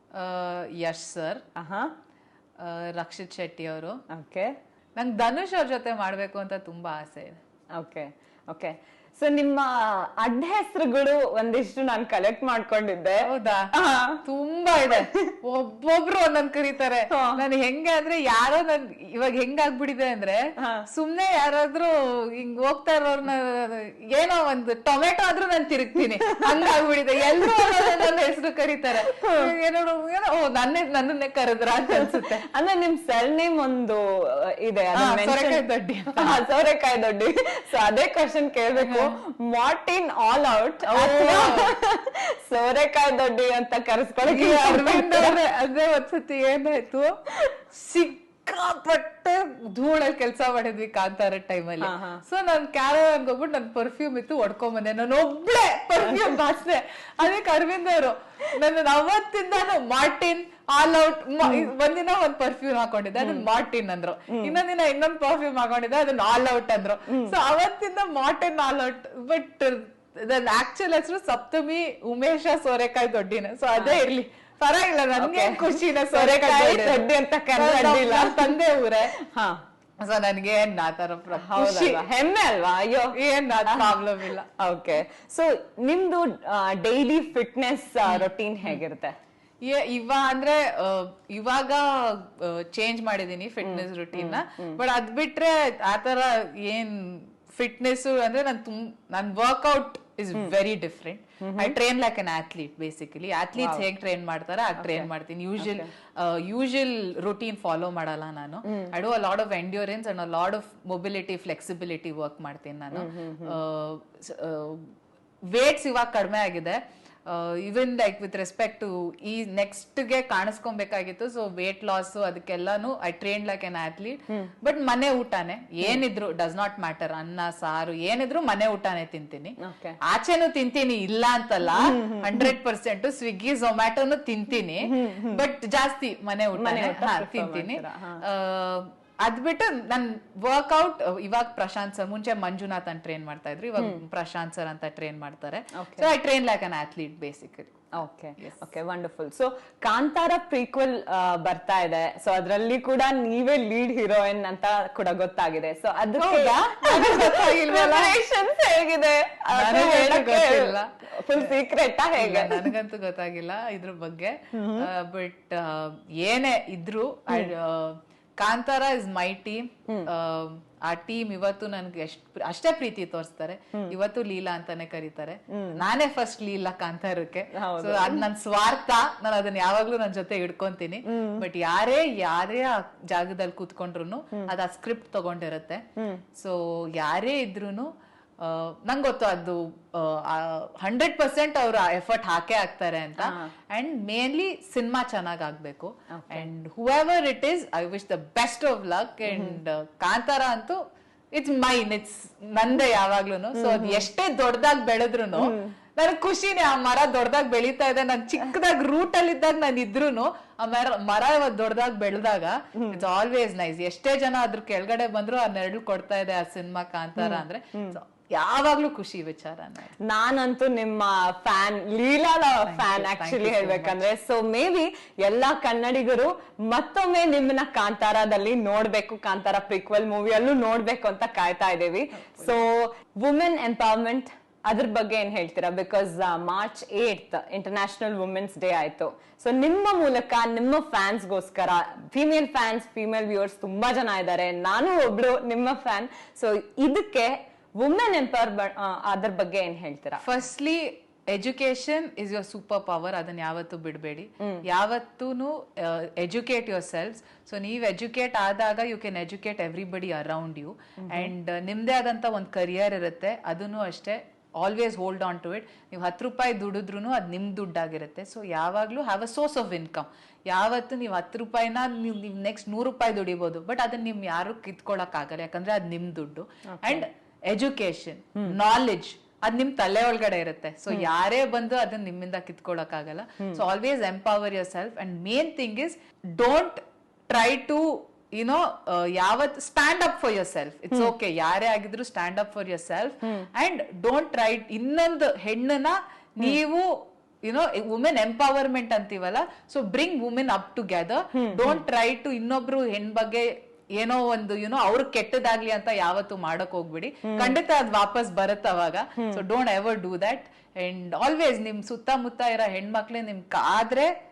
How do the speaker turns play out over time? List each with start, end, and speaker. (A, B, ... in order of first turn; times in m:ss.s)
0:00.1-0:01.4 A
0:01.6-0:01.9 B
0:02.6-0:04.0 A
0:04.1-0:04.5 B
0:05.0-0:07.4 A
0:07.8-0:14.2 B
0:13.2-0:13.7 A
0:14.2-0:32.4 A
0:14.9-0:15.3 B
0:17.1-0:17.4 B
0:20.6-0:20.8 B
0:29.0-0:29.5 B
0:31.9-0:45.4 B
0:35.0-0:36.4 A
0:38.7-0:39.2 A
0:40.9-0:41.7 A
0:44.2-1:19.1 A
0:51.8-0:52.2 B
1:13.8-1:14.0 B
1:15.2-1:18.6 B
1:19.2-1:19.6 B
1:20.0-1:22.0 A
1:21.3-1:24.0 B
1:23.1-1:24.5 A
1:24.6-1:29.1 B
1:28.1-1:28.8 A
1:29.6-1:54.9 A
1:33.6-1:34.8 B
1:41.4-1:41.7 B
1:43.6-1:43.8 B
1:44.8-1:45.9 B
1:48.7-1:48.9 B
1:52.9-1:53.6 B
1:55.5-2:28.6 A
2:09.6-2:10.0 B
2:11.8-2:12.5 B
2:14.8-2:15.4 B
2:16.6-2:18.2 B
2:25.8-2:26.1 B
2:28.0-2:42.7 B
2:36.2-2:38.2 A
2:39.5-2:41.6 A
2:42.2-3:05.8 A
2:44.5-2:44.9 B
2:55.5-2:55.8 B
2:57.5-2:58.2 B
3:01.1-3:01.4 B
3:06.0-3:06.2 B
3:06.4-3:20.8 A
3:13.2-3:13.5 B
3:16.1-3:16.5 B
3:19.3-3:19.6 B
3:21.3-3:39.9 A
3:23.5-3:24.0 B
3:25.3-3:25.7 B
3:37.2-3:37.9 B
3:40.0-4:10.2 B
3:42.6-3:44.0 A
4:10.2-4:56.9 A
4:21.0-4:21.3 B
4:36.7-4:37.0 B
4:57.4-5:14.1 A
5:01.4-5:01.8 B
5:07.3-5:07.6 B